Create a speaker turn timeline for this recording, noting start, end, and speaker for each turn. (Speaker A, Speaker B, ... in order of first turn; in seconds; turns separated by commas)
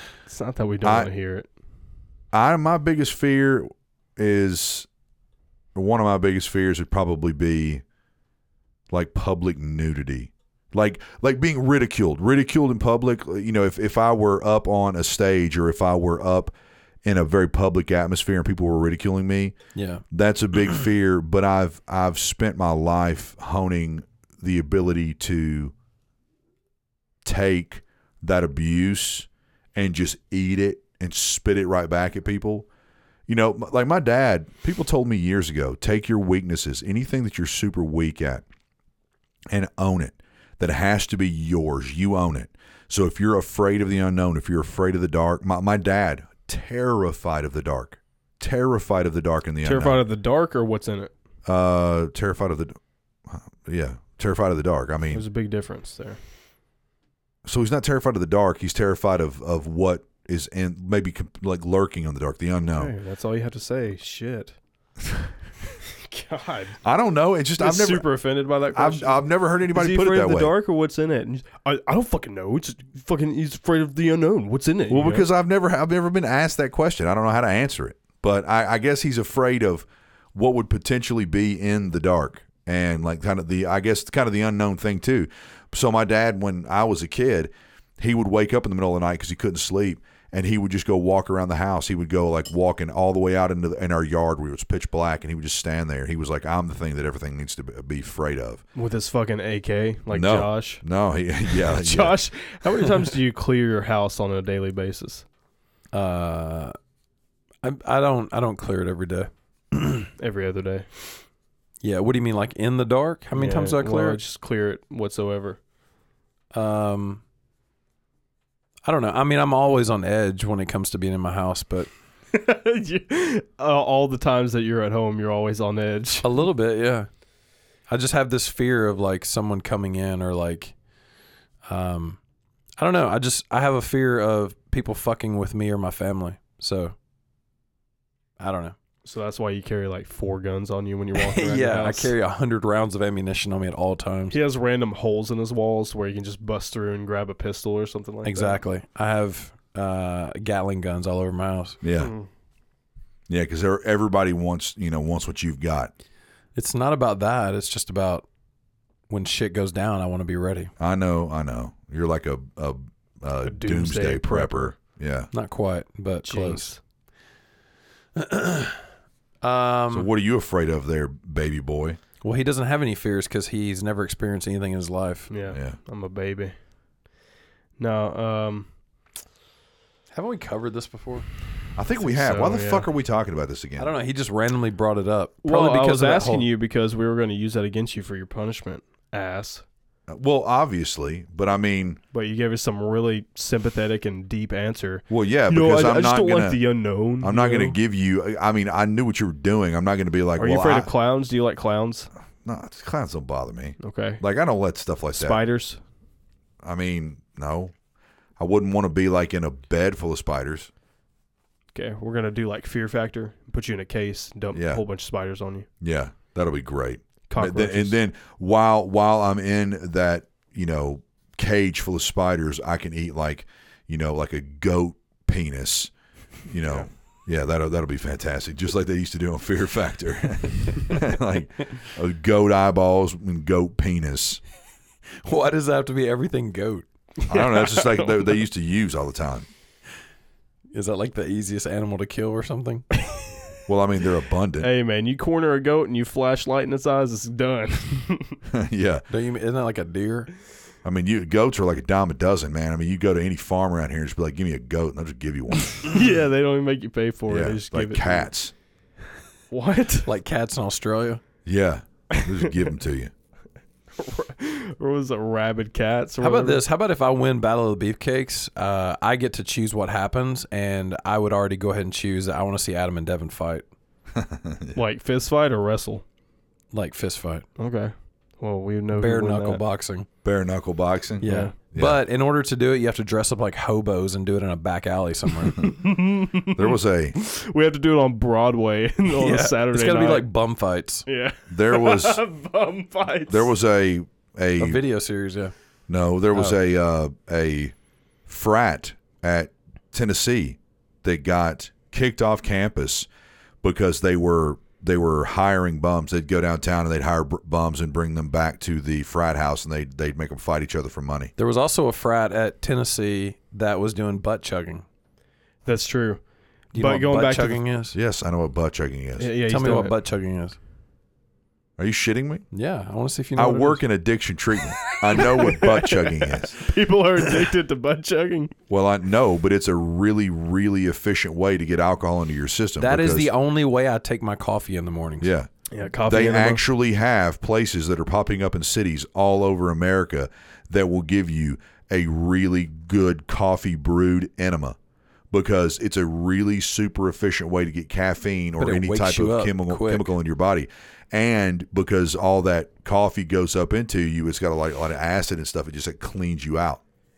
Speaker A: 0.3-1.5, Speaker B: 0.8-1.1, Speaker B: 2.3-4.9, Speaker B: 5.8-7.8, Speaker B: 8.9-16.5, Speaker B: 17.1-19.6, Speaker C: 19.8-20.0, Speaker B: 20.1-25.7, Speaker B: 27.2-32.7, Speaker B: 33.3-38.4, Speaker B: 39.5-50.0, Speaker A: 49.6-51.1, Speaker B: 51.5-52.8, Speaker B: 53.3-55.2, Speaker A: 55.1-56.2, Speaker B: 57.5-62.9, Speaker A: 62.7-64.5, Speaker A: 65.9-66.8, Speaker B: 66.8-68.1, Speaker A: 67.6-75.3, Speaker B: 68.7-70.5, Speaker B: 74.9-98.6, Speaker A: 98.8-100.8, Speaker B: 100.1-102.2, Speaker A: 101.5-105.2, Speaker C: 105.9-106.8, Speaker C: 107.6-110.1, Speaker A: 110.2-110.9, Speaker C: 111.8-114.2, Speaker A: 113.3-115.6, Speaker C: 116.5-117.2, Speaker C: 118.8-121.9, Speaker A: 122.3-126.3, Speaker C: 126.2-127.1, Speaker C: 127.9-130.8, Speaker C: 131.7-132.2, Speaker C: 132.8-136.9, Speaker C: 138.4-138.8, Speaker A: 139.0-142.1, Speaker C: 141.2-144.4, Speaker A: 144.3-148.6, Speaker C: 148.2-151.8, Speaker B: 151.8-152.1, Speaker A: 152.0-152.3, Speaker B: 153.3-155.9, Speaker C: 156.6-158.3, Speaker C: 159.1-160.7, Speaker B: 160.8-165.3, Speaker A: 163.4-164.8, Speaker C: 165.3-166.7, Speaker A: 166.2-166.8, Speaker C: 168.2-168.8, Speaker C: 169.4-170.1, Speaker B: 169.9-172.0, Speaker C: 172.2-175.3, Speaker A: 175.3-176.6, Speaker B: 175.5-175.8, Speaker A: 177.8-178.7, Speaker C: 180.1-181.3, Speaker B: 181.8-183.9, Speaker A: 182.0-182.9, Speaker C: 183.8-186.5, Speaker A: 185.4-189.6, Speaker B: 190.1-192.0, Speaker A: 192.1-197.8, Speaker B: 195.1-196.6, Speaker B: 197.2-200.9, Speaker A: 200.4-202.1, Speaker B: 202.4-205.4, Speaker A: 203.8-204.2, Speaker A: 205.2-205.8, Speaker B: 206.6-207.7, Speaker B: 208.4-210.7, Speaker A: 211.7-215.7, Speaker B: 214.5-214.8, Speaker B: 215.8-225.9, Speaker A: 217.3-218.0, Speaker B: 226.5-234.4, Speaker C: 235.2-236.9, Speaker B: 237.3-239.5, Speaker A: 237.3-238.3, Speaker C: 240.7-242.9, Speaker B: 243.7-244.7, Speaker A: 244.6-248.4, Speaker B: 248.5-249.1, Speaker C: 249.1-250.3, Speaker B: 250.8-255.9, Speaker A: 255.8-258.3, Speaker B: 257.3-258.5, Speaker A: 259.5-260.1, Speaker C: 260.1-261.2, Speaker B: 261.4-263.1, Speaker A: 262.1-262.5, Speaker A: 264.0-266.6, Speaker C: 266.2-273.7, Speaker B: 274.2-274.8, Speaker A: 274.8-276.0, Speaker C: 276.7-277.5, Speaker A: 277.6-279.6, Speaker C: 278.9-280.1, Speaker B: 280.2-282.0, Speaker C: 281.2-285.7, Speaker A: 281.2-281.5, Speaker A: 285.5-290.3, Speaker B: 286.5-287.2, Speaker C: 289.1-291.1, Speaker A: 291.1-293.5, Speaker B: 291.5-292.2, Speaker B: 293.3-294.8, Speaker C: 294.6-295.5, Speaker B: 295.9-297.7, Speaker B: 298.3-303.1, Speaker B: 303.6-311.3, Speaker C: 311.4-314.9, Speaker A: 315.6-316.2, Speaker A: 316.7-317.6, Speaker C: 316.7-318.0, Speaker B: 317.9-319.3, Speaker A: 319.2-320.0, Speaker C: 319.5-320.6, Speaker B: 321.8-322.4, Speaker C: 322.5-323.8, Speaker B: 323.4-326.6, Speaker A: 325.4-328.5, Speaker B: 328.7-333.3, Speaker C: 332.8-335.3, Speaker B: 335.2-335.5, Speaker A: 335.7-336.6, Speaker B: 336.1-344.8, Speaker B: 345.3-356.8, Speaker C: 348.6-350.1